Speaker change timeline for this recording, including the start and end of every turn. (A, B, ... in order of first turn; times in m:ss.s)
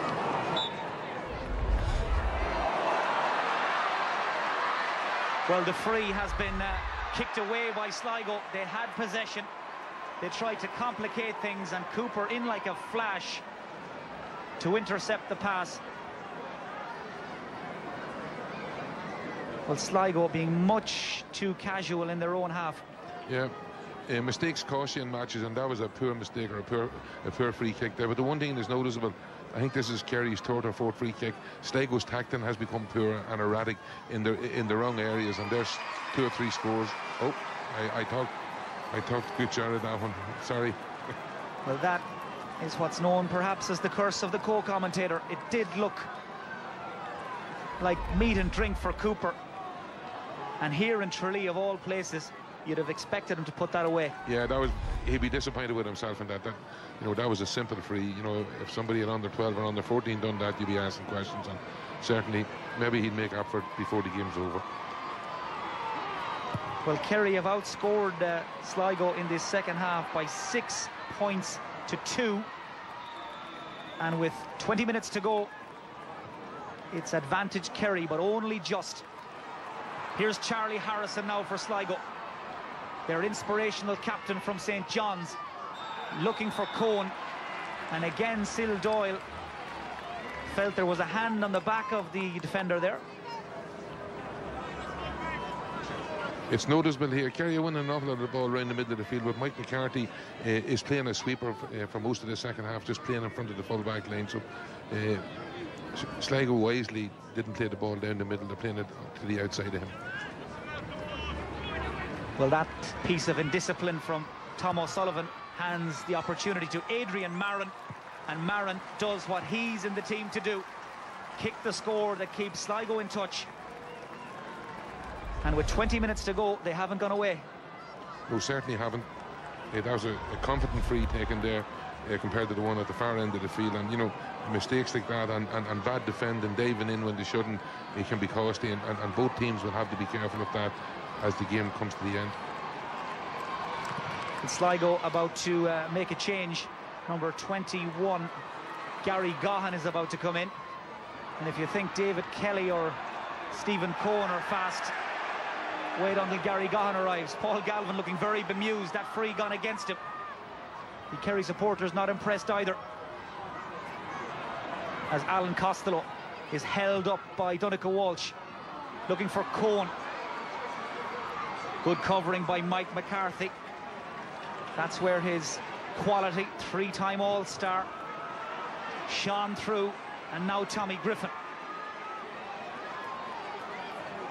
0:05.5-0:09.5 A
0:10.2-0:13.4 A
0:14.6-0:15.8 A
0:19.6-0:22.8 A
0:23.3-0:23.5 B
0:24.1-0:38.3 B
0:38.9-0:40.8 B
0:41.6-0:42.0 A
0:42.6-0:46.1 A
0:47.8-0:49.4 A
0:50.6-0:54.2 A
0:54.2-1:04.6 B
1:06.8-1:12.5 A
1:14.0-1:15.5 A
1:16.9-1:19.0 A
1:20.1-1:22.0 A
1:23.1-1:25.4 A
1:26.1-1:27.1 A
1:27.9-1:29.2 A
1:30.4-1:33.0 A
1:36.5-1:45.2 B
1:45.9-1:49.9 B
1:52.4-1:57.7 A
1:58.3-2:00.7 A
2:01.4-2:03.5 A
2:05.4-2:07.4 A
2:08.3-2:09.1 B
2:09.7-2:22.4 B
2:24.4-2:28.3 A
2:29.0-2:30.5 A
2:31.4-2:33.0 A
2:33.5-2:34.9 A
2:36.0-2:40.0 A
2:41.1-2:42.8 A
2:45.1-2:48.4 A
2:49.1-2:49.9 A
2:51.8-2:53.5 A
2:54.7-2:57.9 A
2:59.1-3:01.3 A